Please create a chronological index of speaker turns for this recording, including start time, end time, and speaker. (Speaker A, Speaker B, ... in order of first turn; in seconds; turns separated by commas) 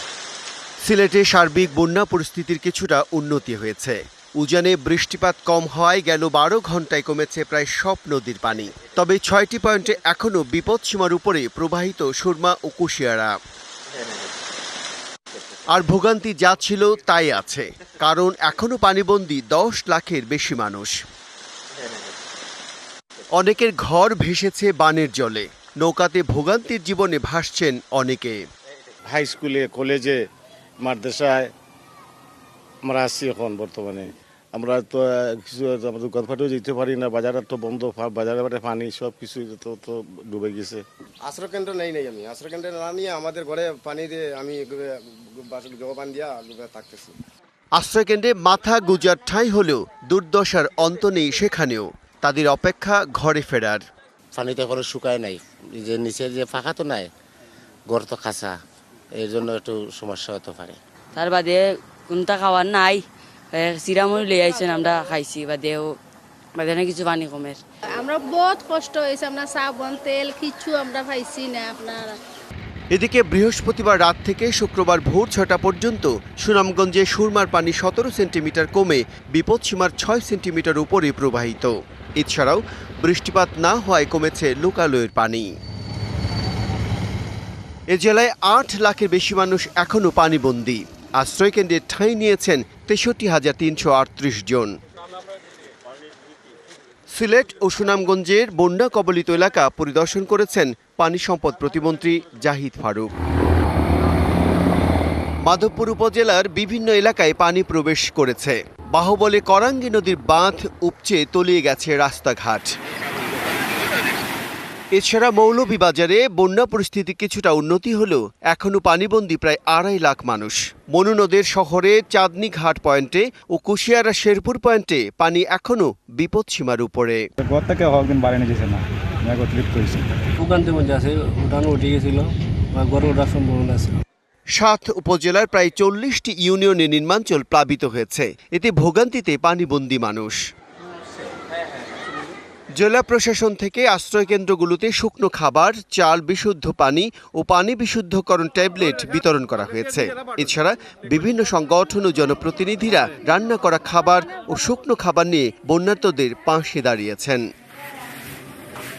Speaker A: 0.8-13.3, Speaker A: 15.7-20.9, Speaker A: 23.3-28.4, Speaker B: 29.1-30.2, Speaker B: 30.8-31.5, Speaker B: 32.9-40.8, Speaker C: 41.2-47.2, Speaker A: 47.8-53.8, Speaker D: 54.3-57.1, Speaker D: 57.9-58.5, Speaker D: 59.2-60.8, Speaker E: 61.1-63.0, Speaker E: 63.5-65.9, Speaker E: 66.6-67.6, Speaker F: 67.9-72.2, Speaker A: 72.9-85.5, Speaker A: 87.9-94.7, Speaker A: 97.1-103.1, Speaker A: 105.5-112.7, Speaker A: 115.0-127.2, Speaker G: 127.4-130.3, Speaker H: 130.4-133.9, Speaker A: 134.6-140.4, Speaker A: 142.8-157.4